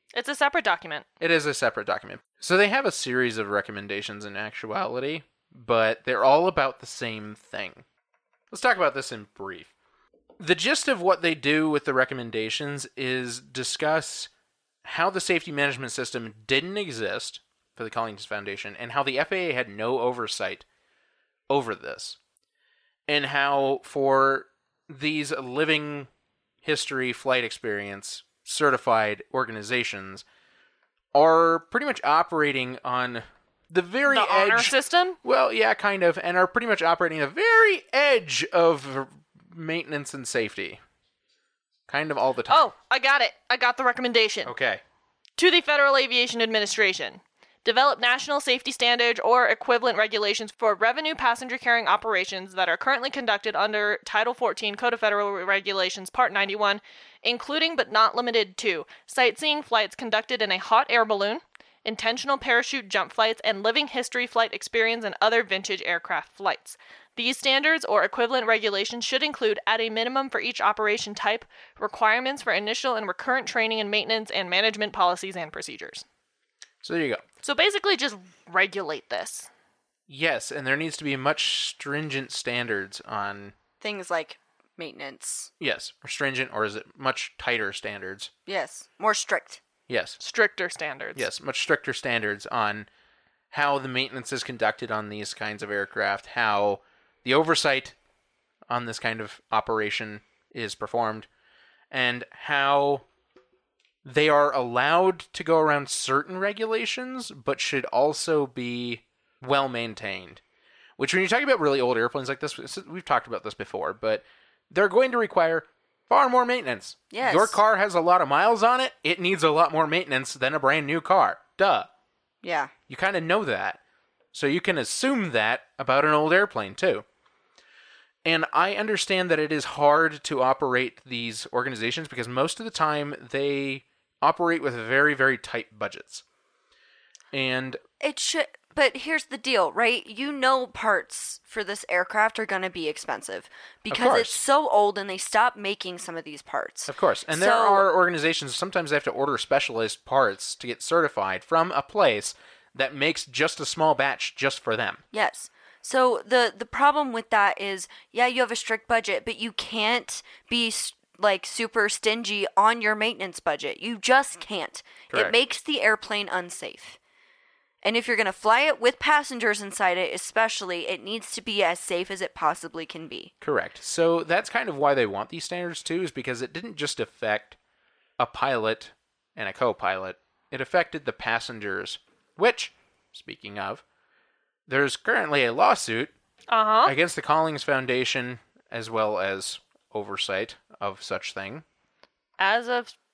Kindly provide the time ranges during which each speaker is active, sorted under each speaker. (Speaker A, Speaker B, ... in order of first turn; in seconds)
Speaker A: 0.1-1.1, 34.1-35.2, 42.5-44.5, 45.4-76.0, 77.4-79.5, 90.2-91.3, 186.5-186.9, 192.4-192.9
Speaker B: 1.2-7.9, 8.5-9.7, 10.4-14.3, 14.8-20.6, 21.5-22.2, 23.1-26.1, 26.6-30.2, 31.1-40.8, 41.9-42.7, 44.4-44.8, 76.8-77.2, 80.1-83.5, 85.6-88.3, 89.9-90.2, 91.2-92.9, 93.5-98.0, 98.7-101.3, 101.9-103.0, 104.0-110.4, 111.0-121.9, 122.9-123.8, 124.3-127.0, 128.2-136.2, 137.3-137.8, 143.9-144.4, 146.9-155.0, 165.1-165.3, 173.4-177.6, 178.2-183.8, 184.7-186.1, 186.8-191.7
Speaker C: 83.8-85.5, 88.5-89.6, 117.1-117.6, 122.4-122.7, 138.0-147.9, 155.1-167.0, 167.8-173.3